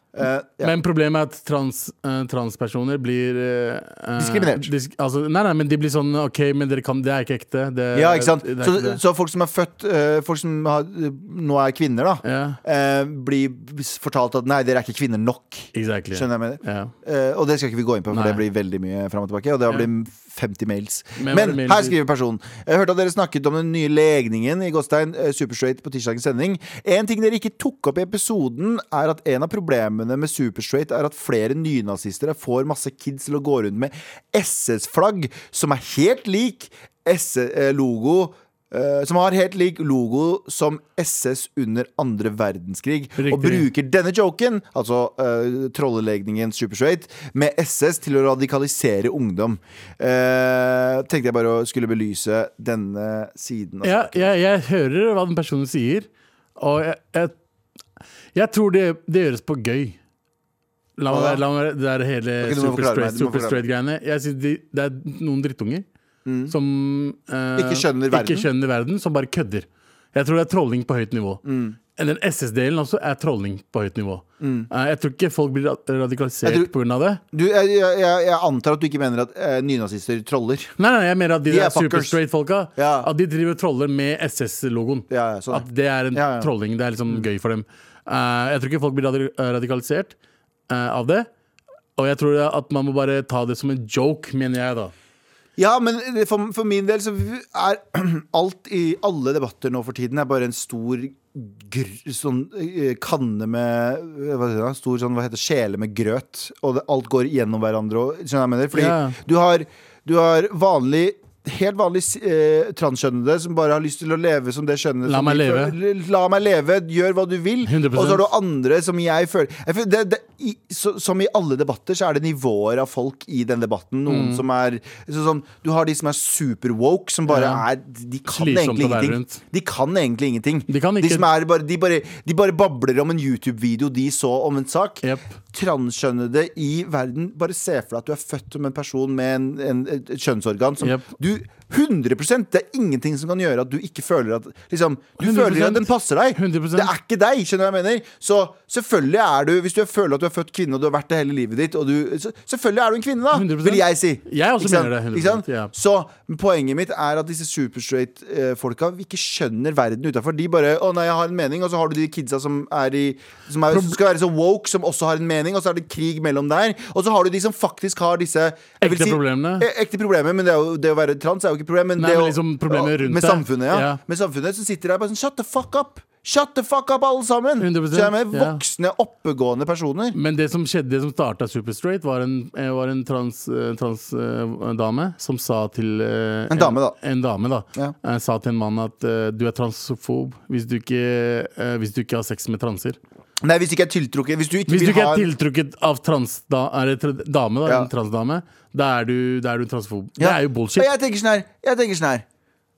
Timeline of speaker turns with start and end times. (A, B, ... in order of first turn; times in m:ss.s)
0:00.1-0:00.7 A
0:00.6-0:09.0 B
0:04.2-0:04.7 A
0:07.9-0:54.3 A
0:12.2-0:12.6 B
0:15.7-0:16.9 B
0:18.1-0:18.4 B
0:21.2-0:22.0 B
0:43.2-0:43.7 B
0:53.8-0:57.4 B
0:58.3-1:00.0 B
1:01.0-1:05.8 B
1:01.1-1:01.4 A
1:02.4-1:03.6 A
1:06.2-1:06.6 A
1:06.5-1:11.4 B
1:07.6-1:08.5 A
1:11.4-1:11.8 A
1:12.0-1:17.2 B
1:14.4-1:14.7 A
1:16.4-1:16.7 A
1:17.3-1:20.7 A
1:20.8-1:30.1 B
1:21.5-1:22.2 A
1:22.8-1:23.1 A
1:25.1-1:26.5 A
1:30.7-1:31.3 B
1:32.0-1:34.9 B
1:35.6-3:00.2 A
1:48.7-1:49.2 B
1:55.1-1:55.8 B
1:57.6-1:58.3 B
2:04.1-2:04.4 B
2:07.3-2:07.6 B
2:08.3-2:09.4 B
2:10.7-2:11.3 B
2:15.0-2:15.3 B
2:20.8-2:21.1 B
2:25.2-2:26.9 B
2:33.3-2:35.7 B
2:48.8-2:49.7 B
2:52.0-2:54.0 B
2:57.6-2:58.6 B
3:00.1-3:13.0 B
3:06.5-3:07.0 A
3:13.4-3:15.3 A
3:14.7-3:20.9 B
3:20.2-3:22.2 A